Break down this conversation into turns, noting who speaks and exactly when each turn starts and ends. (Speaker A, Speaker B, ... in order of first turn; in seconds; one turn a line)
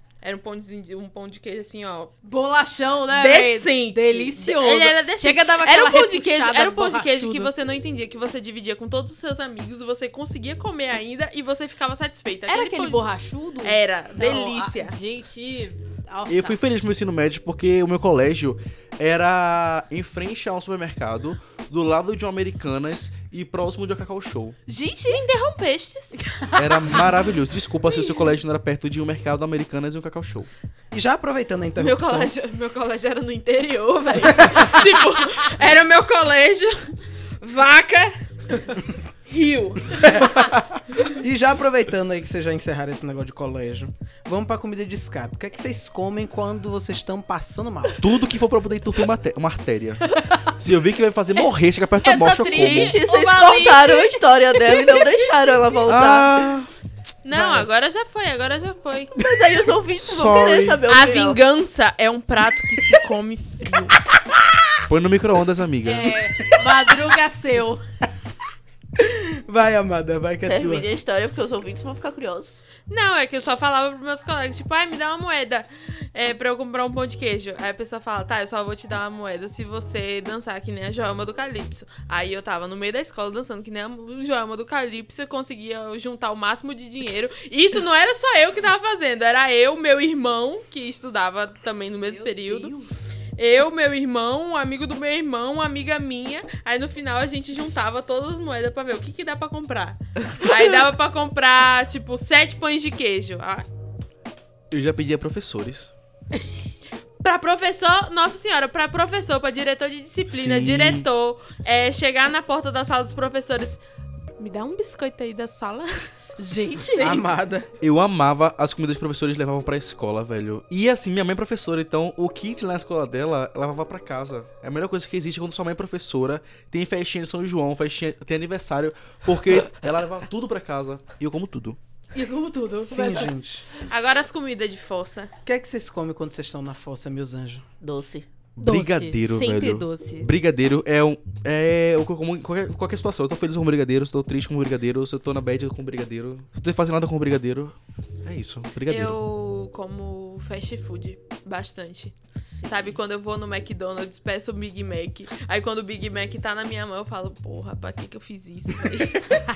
Speaker A: 0.2-2.1
Speaker B: 2.2-7.5
Speaker A: 3.1-13.1
Speaker B: 12.5-16.6
Speaker A: 13.6-14.9
Speaker C: 16.3-24.6
Speaker B: 24.7-25.2
Speaker A: 25.1-26.3
Speaker B: 26.4-27.0
Speaker C: 26.6-30.5
Speaker D: 30.9-32.3
Speaker A: 31.8-36.9
Speaker A: 37.4-38.1
Speaker A: 39.3-40.3
Speaker D: 40.0-40.4
Speaker D: 41.2-48.0
Speaker C: 48.0-53.0
Speaker B: 50.1-50.5
Speaker B: 52.0-55.3
Speaker E: 52.5-56.4
Speaker C: 55.9-56.7
Speaker A: 57.2-59.2
Speaker D: 57.3-57.7
Speaker E: 59.2-61.4
Speaker C: 60.0-60.8
Speaker A: 60.9-64.0
Speaker C: 64.9-66.2
Speaker B: 65.8-67.8
Speaker D: 69.0-70.9
Speaker E: 70.5-72.6
Speaker A: 72.9-92.7
Speaker B: 92.0-93.1
Speaker A: 93.4-103.7
Speaker C: 104.7-105.9
Speaker A: 107.2-113.8
Speaker C: 110.3-111.1
Speaker A: 114.4-115.9
Speaker B: 116.4-117.1
Speaker A: 116.8-117.2
Speaker D: 117.0-117.7
Speaker C: 117.8-131.8
Speaker B: 132.2-133.3
Speaker D: 132.8-133.7
Speaker A: 133.9-135.3
Speaker D: 135.4-137.7
Speaker E: 137.8-138.3
Speaker C: 138.6-149.2
Speaker B: 138.6-140.3
Speaker A: 148.9-152.1
Speaker E: 152.6-152.9
Speaker A: 152.7-159.2